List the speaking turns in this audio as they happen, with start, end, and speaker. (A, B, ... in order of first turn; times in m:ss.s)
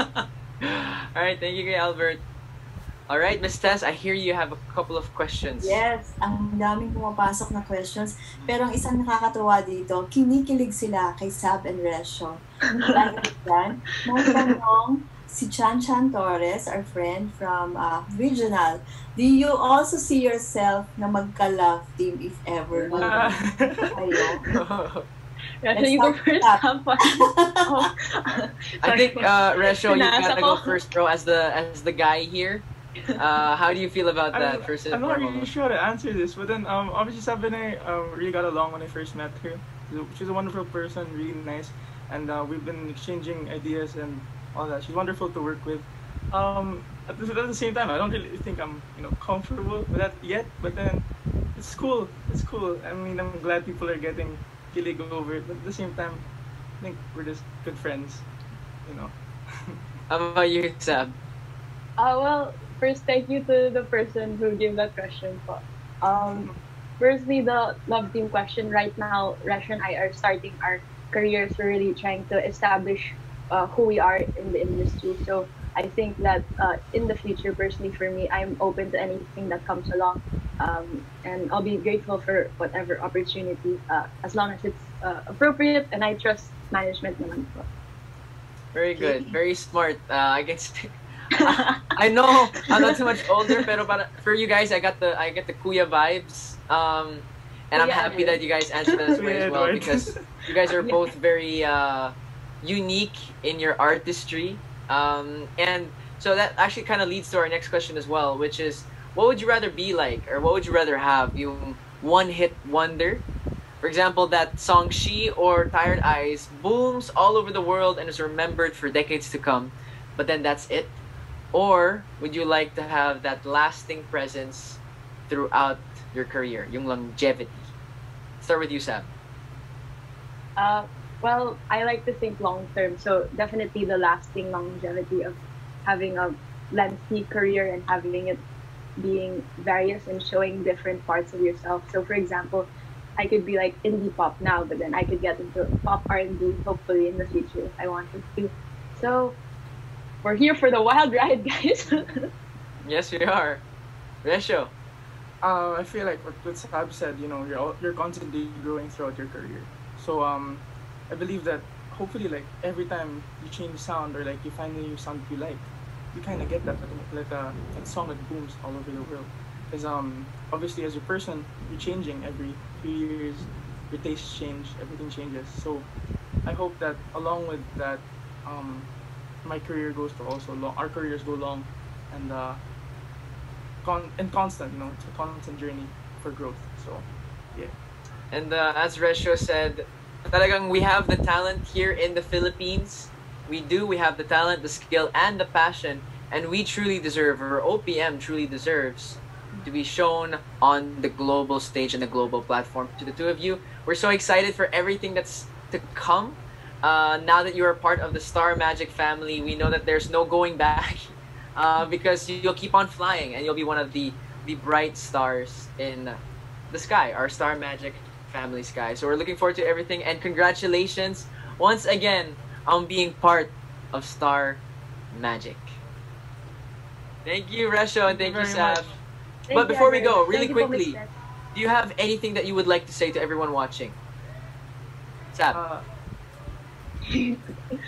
0:00.6-0:02.2 A
0:03.1-0:05.8 A
0:05.6-0:23.4 B
0:23.0-0:23.9 C
0:23.9-0:24.5 B
0:24.5-0:25.0 A
0:25.6-0:27.1 D
0:25.8-0:26.6 B
0:27.2-0:27.8 B
0:28.8-0:32.6 A
0:28.8-0:29.3 D
0:29.8-0:30.7 D
0:33.2-0:35.5 A
0:34.3-0:56.3 C
0:56.8-0:58.3 C
0:58.8-0:59.1 C
1:00.1-1:01.1 A
1:02.0-1:27.6 D
1:06.1-1:06.5 C
1:28.7-1:53.2 A
1:37.8-1:38.4 D
1:38.9-1:40.2 C
1:53.8-2:01.0 A
2:01.5-2:07.7 A
2:08.4-2:09.1 A
2:10.6-2:18.4 D
2:19.0-2:29.4 D
2:30.2-2:32.1 D
2:32.8-2:33.6 A
2:34.2-2:34.7 A
2:35.4-2:55.9 C
2:56.4-2:58.9 C
2:59.4-3:02.6 C
3:03.8-3:07.7 C
3:08.3-3:36.2 A
3:36.7-3:44.6 A
3:45.1-3:45.8 A
3:47.2-3:48.9 A
3:48.1-3:49.0 C
3:49.5-3:51.1 D
3:49.5-3:51.0 A
3:51.5-3:54.0 A
3:55.3-3:55.6 A
3:55.5-3:55.8 C
3:57.1-3:57.4 D